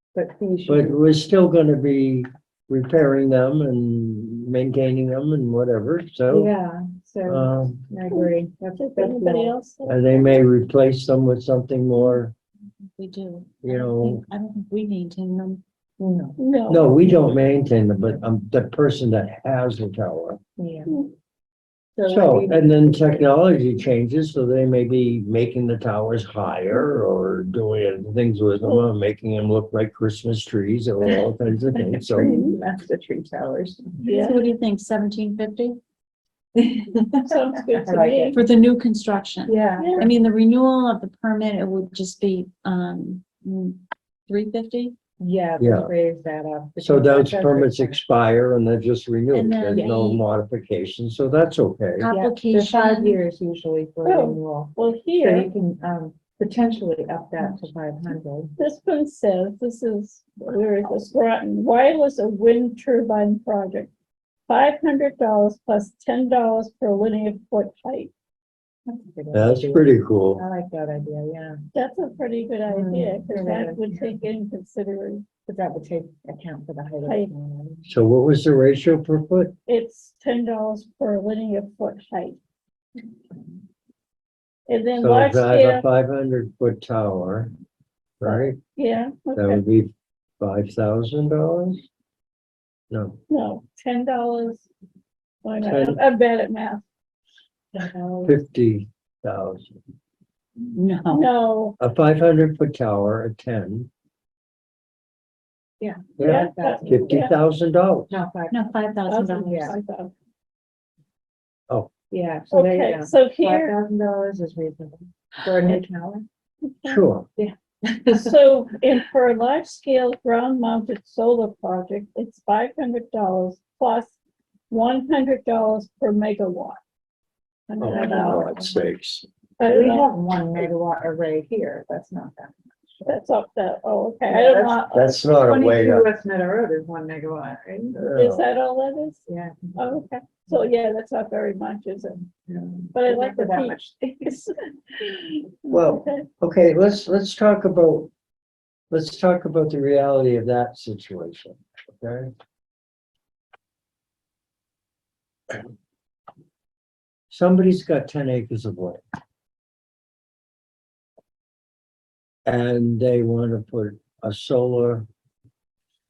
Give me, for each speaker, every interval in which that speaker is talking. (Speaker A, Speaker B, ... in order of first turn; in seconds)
Speaker A: 0.1-1.1, 6.3-9.6, 16.0-16.4, 20.6-21.0, 22.0-23.2, 31.7-34.3, 36.5-38.4, 39.5-40.1, 45.2-48.0, 52.1-58.5, 68.9-71.6, 72.7-74.1, 75.5-77.9, 97.7-98.4, 105.8-107.3, 108.1-108.7, 109.4-109.7, 112.1-116.3, 117.4-118.4, 127.8-128.8, 129.6-133.1, 135.4-138.0, 139.3-139.7, 142.5-144.5
Speaker B: 0.7-6.5, 7.3-7.9, 9.9-12.3, 13.6-14.2, 16.7-20.4, 22.0-32.4, 45.6-45.9, 46.8-52.1, 69.3-70.4, 77.9-79.5, 85.0-87.5, 88.2-88.6, 89.3-91.8, 92.9-93.2, 95.6-96.0, 98.2-99.8, 101.8-103.9, 106.2-108.2, 116.8-117.3, 127.8-129.3, 134.4-136.1, 138.0-138.4, 145.7-148.1, 148.9-152.3, 157.3-159.0, 162.5-165.1
Speaker C: 8.1-10.4, 16.4-16.9, 32.2-32.6, 34.0-34.4, 37.3-38.4, 39.8-40.1, 54.0-55.5, 58.6-63.9, 64.5-68.1, 71.7-75.2, 77.0-77.3, 79.7-82.4, 84.7-85.8, 88.3-89.6, 93.3-94.7, 95.4-96.8, 101.1-101.8, 106.2-107.3, 109.1-110.1, 112.5-113.8, 116.7-117.0, 118.1-124.2, 124.7-126.8, 127.7-128.5, 129.6-130.1, 133.1-135.2, 138.1-139.2, 139.8-142.3, 142.9-144.5, 145.7-146.3
Speaker D: 13.0-15.6, 34.1-35.8, 38.3-45.0, 49.3-50.2, 52.0-53.2, 100.7-101.3, 108.5-109.8